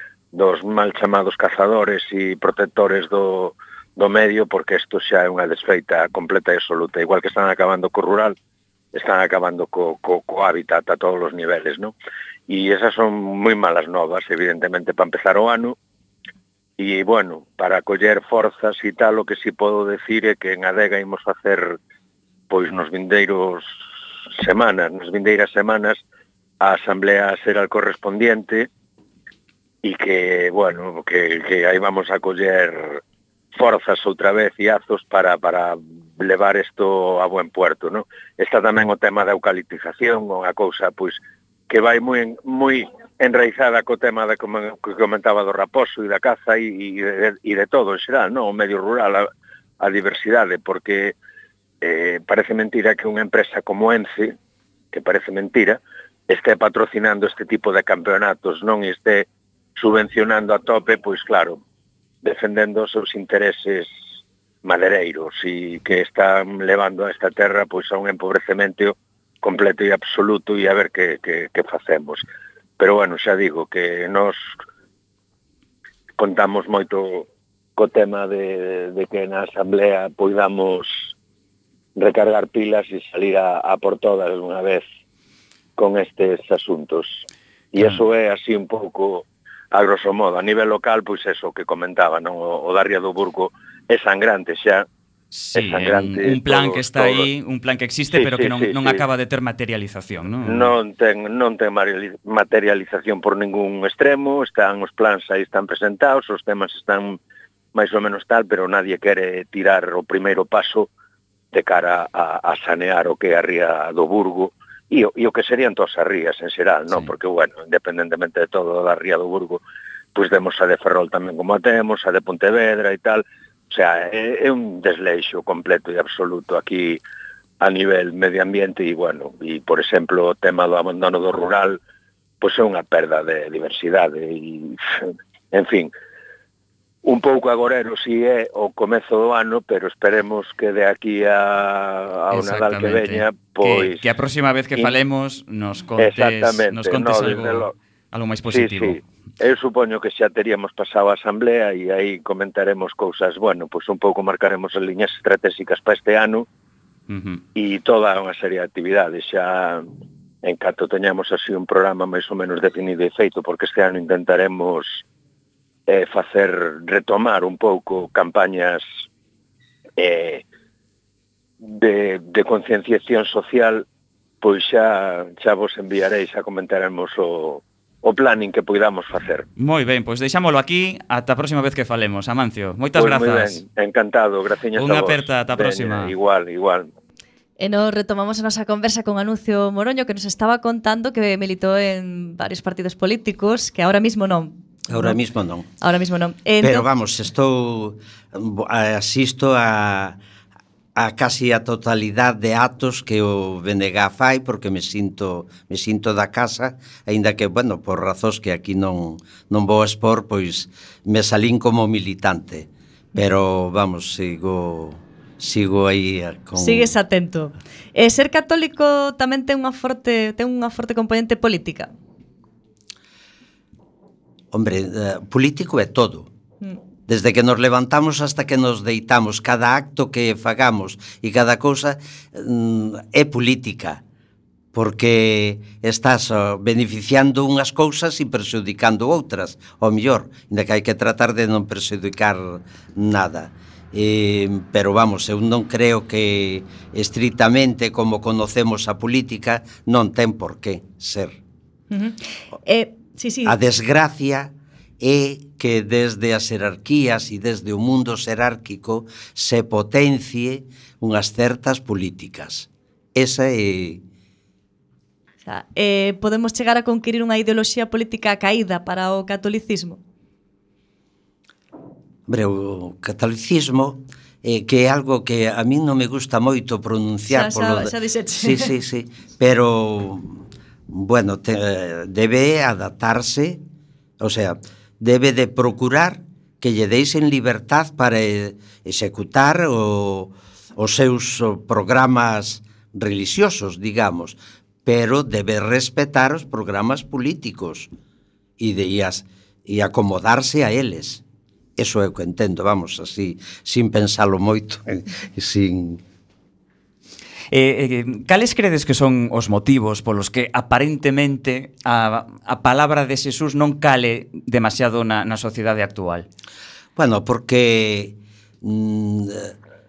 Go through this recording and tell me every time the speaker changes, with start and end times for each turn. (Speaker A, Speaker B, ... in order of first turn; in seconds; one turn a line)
Speaker A: 0.3-8.3
Speaker A: 8.9-11.9
Speaker A: 12.5-15.8
Speaker A: 16.8-21.8
Speaker A: 22.5-23.7
Speaker A: 24.4-26.0
Speaker A: 26.6-28.7
Speaker A: 29.8-33.0
Speaker A: 33.5-49.3
Speaker A: 49.8-51.1
Speaker A: 51.8-54.3
Speaker A: 54.9-61.6
Speaker A: 62.2-63.9
Speaker A: 64.6-72.2
Speaker A: 72.8-74.4
Speaker A: 76.2-81.0
Speaker A: 82.0-84.8
Speaker A: 85.8-94.8
Speaker B: 95.3-100.7
Speaker A: 95.5-97.3
Speaker A: 98.1-99.0
Speaker A: 100.4-107.2
Speaker A: 107.7-110.9
Speaker A: 111.5-119.6
Speaker A: 120.1-127.0
Speaker A: 127.6-131.8
Speaker A: 132.4-135.0
Speaker A: 135.5-135.9
Speaker A: 137.0-144.1
Speaker B: 142.3-149.1
Speaker A: 146.0-147.7
Speaker A: 148.5-156.4
Speaker B: 157.1-157.4
Speaker A: 157.6-159.8
Speaker A: 160.4-165.0
Speaker A: 165.9-168.8
Speaker A: 170.0-170.4
Speaker A: 171.6-173.8
Speaker A: 174.4-179.5
Speaker B: 179.6-183.6
Speaker A: 182.9-186.9
Speaker B: 184.8-186.1
Speaker C: 187.6-195.2
Speaker D: 194.9-195.7
Speaker C: 195.8-196.8
Speaker D: 196.6-200.2
Speaker D: 200.9-216.9
Speaker C: 216.6-221.9
Speaker D: 224.5-226.3
Speaker D: 227.1-234.0
Speaker D: 234.7-251.4
Speaker C: 251.9-253.5
Speaker D: 253.4-264.0
Speaker C: 265.4-270.0
Speaker D: 272.3-283.6
Speaker C: 277.3-278.7
Speaker D: 284.2-297.9
Speaker D: 298.6-301.2
Speaker D: 301.8-306.0
Speaker B: 307.5-316.3
Speaker D: 316.9-319.5